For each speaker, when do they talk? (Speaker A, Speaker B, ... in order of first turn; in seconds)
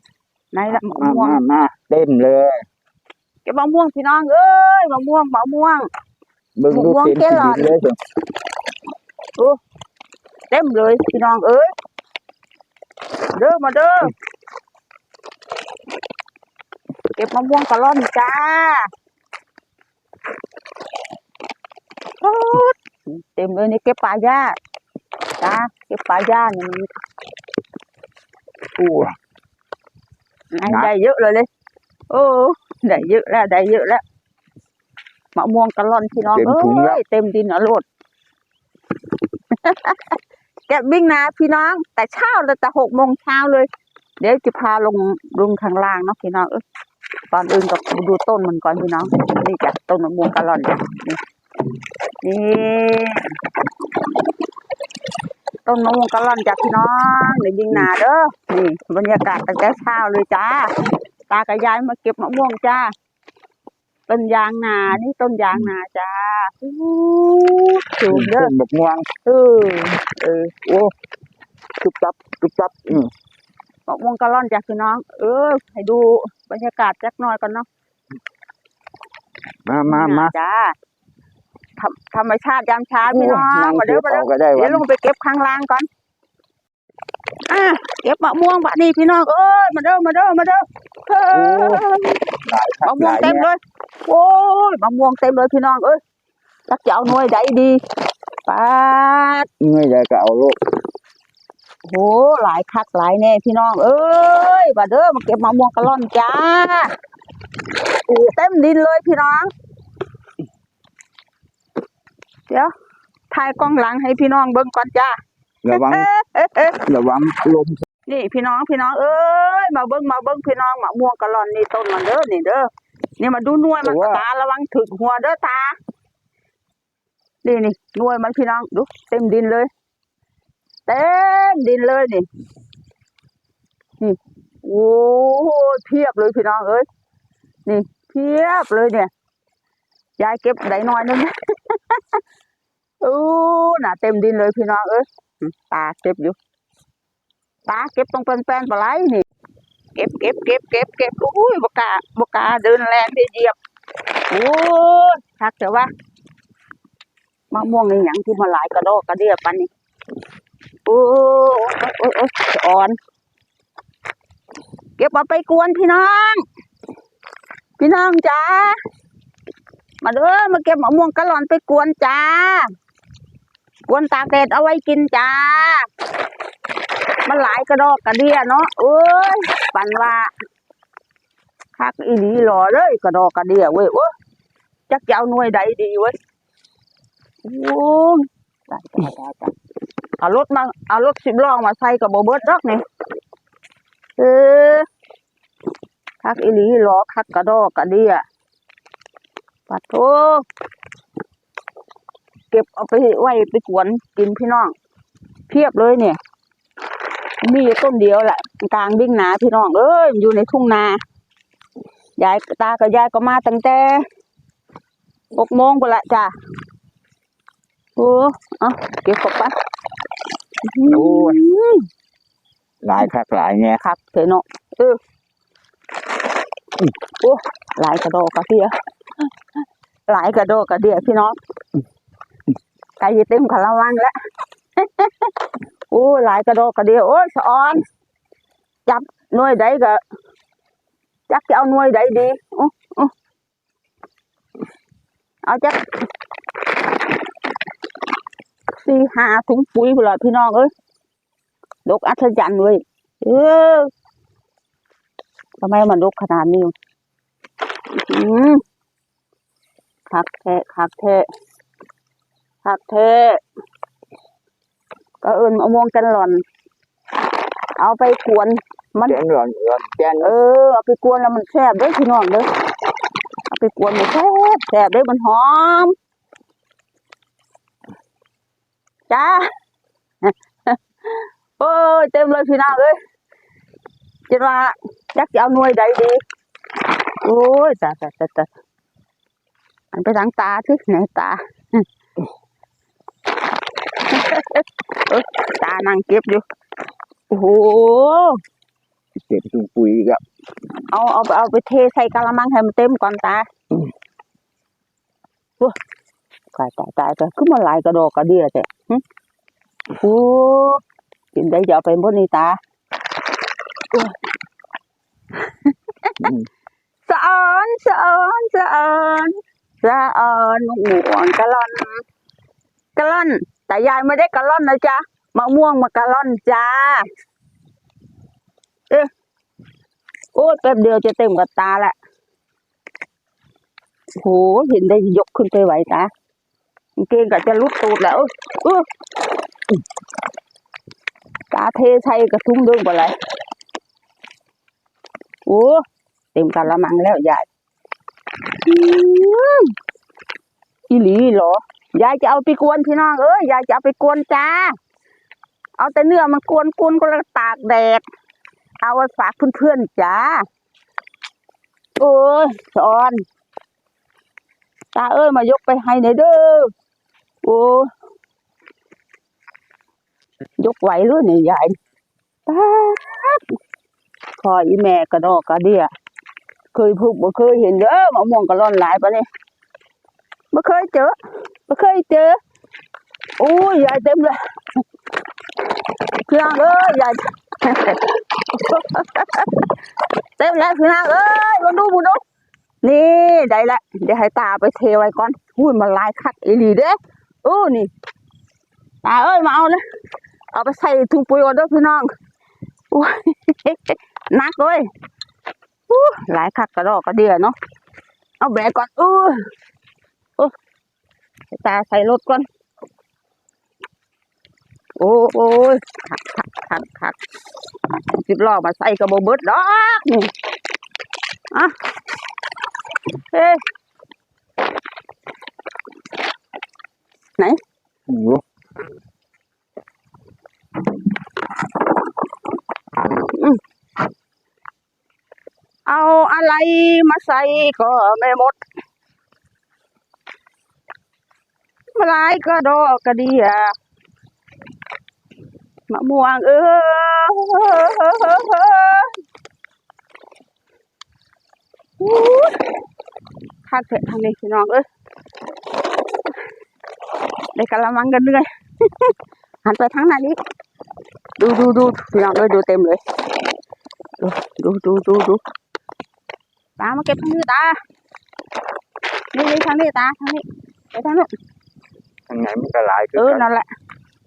Speaker A: 0.5-1.4, 3.5-5.9, 6.7-7.7, 10.5-11.7, 13.3-14.1, 17.1-18.9, 22.2-24.6, 25.4-26.9, 30.5-31.5, 32.1-34.0, 35.4-37.9, 39.5-43.7, 44.2-46.6, 47.3-51.2, 52.2-53.3, 55.6-60.7, 61.3-62.9, 64.1-68.5, 69.3-70.9, 73.9-77.7, 79.9-80.8, 81.8-85.9, 87.5-92.2, 92.8-96.0, 96.7-97.8, 98.5-99.5, 101.9-106.9, 108.1-109.5, 113.3-115.2, 115.7-116.8, 118.1-125.8, 127.4-129.7, 130.9-132.3, 134.0-136.9, 137.7-139.1, 140.2-142.2, 143.0-146.4, 147.7-149.3, 149.9-153.6, 154.3-155.9, 157.5-159.7, 160.9-163.0, 165.0-166.4, 167.8-168.8, 170.0-172.7, 173.9-175.9, 177.3-180.3, 181.8-184.1, 184.9-186.2, 187.4-189.5, 190.2-192.8, 194.2-194.9, 196.2-198.2, 199.7-200.4, 202.5-204.7, 205.5-206.2, 207.4-211.0, 212.2-214.1, 215.3-216.3, 218.0-219.6, 220.7-221.9, 223.8-225.0, 227.2-228.7, 230.1-231.4, 233.0-234.1, 234.8-237.8, 238.9-240.0, 241.3-243.1, 245.4-245.8, 248.7-250.7, 251.9-253.9, 255.6-256.7, 257.9-258.6, 260.1-261.2, 262.6-263.4, 265.2-266.4, 267.8-269.2, 270.2-272.5, 273.5-275.9, 279.1-279.5, 280.2-283.0, 284.3-286.2, 287.2-288.5, 289.9-291.9, 294.1-296.4, 297.3-298.4, 300.9-303.5, 306.5-309.0, 310.0-310.8, 311.3-312.6, 315.3-316.3, 317.1-322.0, 323.0-327.1, 330.3-331.9, 334.2-336.1, 337.0-338.9, 341.5-343.2, 345.5-345.8, 346.3-347.5, 348.6-349.8, 350.9-354.7, 355.8-358.0, 358.8-360.4, 362.0-363.2, 364.9-366.7, 367.4-367.9, 370.6-371.8, 372.5-373.5, 374.4-375.9, 376.7-379.3, 380.5-381.1, 381.7-382.4, 383.4-384.4, 386.2-389.7, 390.4-392.2, 392.8-397.9, 399.0-399.8, 400.5-402.1, 402.9-404.9, 405.9-407.6, 408.4-409.4, 411.5-412.5, 415.0-417.2, 417.9-420.3, 423.3-423.6, 433.1-433.6, 435.9-438.6, 442.0-443.7, 445.9-449.2, 452.0-452.7, 453.6-454.9, 457.6-459.1, 459.6-460.4, 461.4-463.0, 464.2-465.4, 466.8-467.8, 469.3-471.3, 473.2-473.7
Speaker B: 0.7-2.6, 6.6-8.0, 28.8-29.1, 30.7-30.9, 36.3-37.0, 68.1-69.1, 71.8-73.1, 79.7-80.3, 83.1-84.8, 91.3-91.9, 92.5-93.5, 99.6-100.6, 115.7-116.1, 116.8-117.8, 123.8-124.2, 220.9-221.4, 222.8-223.8, 269.1-270.4, 299.3-300.2, 316.2-316.5, 428.1-428.4, 472.3-473.5